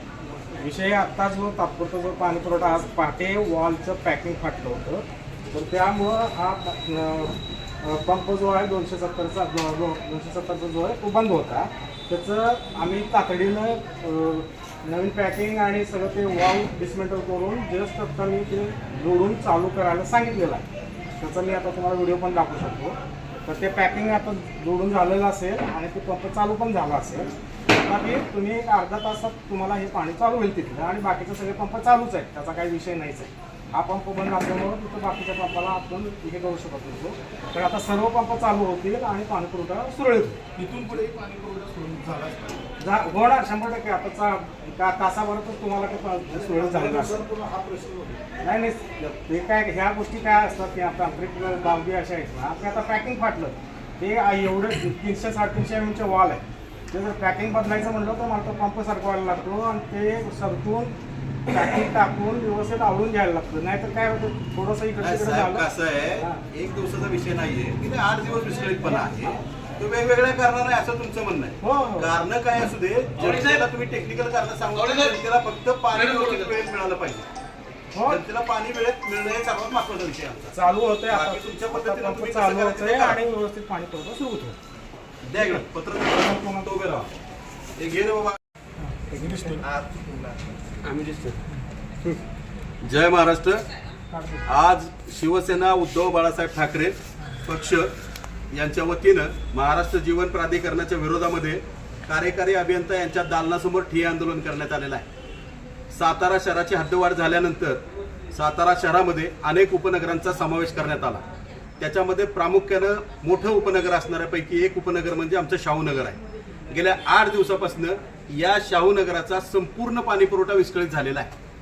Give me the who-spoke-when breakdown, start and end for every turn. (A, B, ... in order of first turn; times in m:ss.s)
0:00.6-0:20.6 A
0:21.2-0:40.4 A
0:40.6-0:42.6 B
0:40.6-0:41.0 C
0:42.8-0:47.2 A
0:46.4-0:48.2 B
0:48.4-1:00.9 A
1:01.5-1:05.7 A
1:05.0-1:17.2 C
1:06.2-1:06.4 A
1:08.8-1:09.4 A
1:11.6-1:12.2 A
1:17.9-1:18.2 A
1:18.0-1:20.5 C
1:20.5-1:24.6 A
1:21.1-1:23.2 C
1:25.3-1:27.1 C
1:25.4-1:26.7 A
1:27.8-1:28.4 C
1:28.8-1:29.6 A
1:30.8-1:31.4 C
1:32.8-1:33.6 C
1:34.1-1:34.5 A
1:34.5-1:37.9 C
1:38.5-1:45.0 C
1:45.9-1:47.8 C
1:48.3-1:51.2 C
1:51.8-1:56.2 C
1:56.7-2:01.3 C